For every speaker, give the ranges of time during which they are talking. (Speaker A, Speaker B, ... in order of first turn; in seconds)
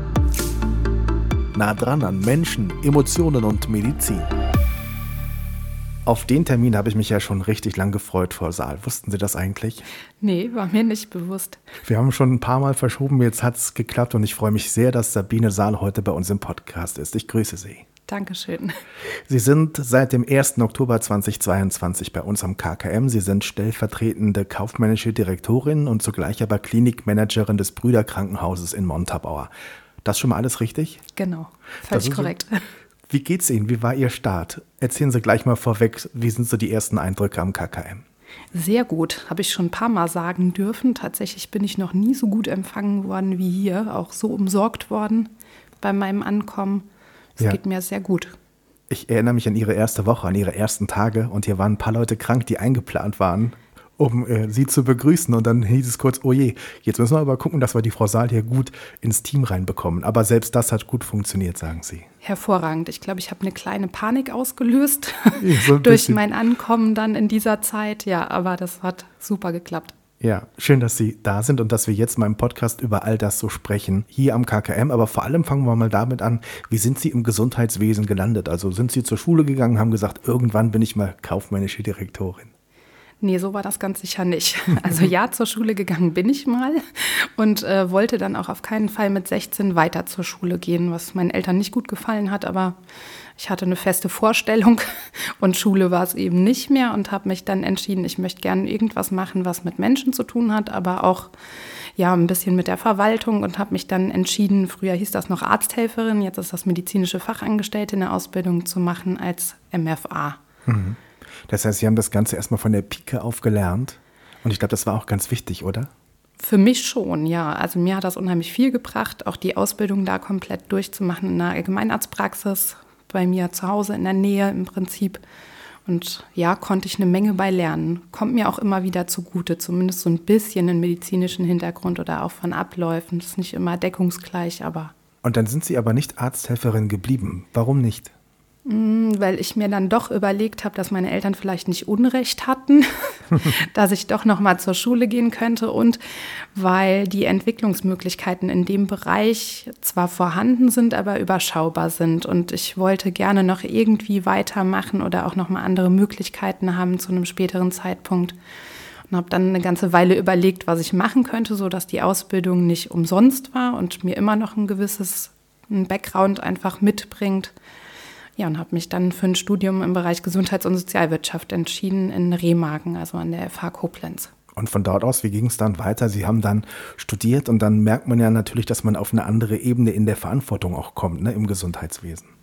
Speaker A: 1.5-4.3, 6.0-9.8, 11.8-17.8, 19.3-29.5, 30.0-31.0, 31.9-32.3, 33.1-38.0, 48.9-62.1, 65.4-66.2, 70.2-82.5, 110.7-115.9, 135.2-138.1, 174.5-182.3
Speaker B: 10.2-11.6, 18.1-18.8, 31.1-32.6, 38.5-45.3, 45.8-48.3, 62.2-69.9, 83.2-92.8, 93.4-110.4, 116.4-125.2, 125.8-134.9, 138.6-158.3, 159.1-167.5, 168.4-174.3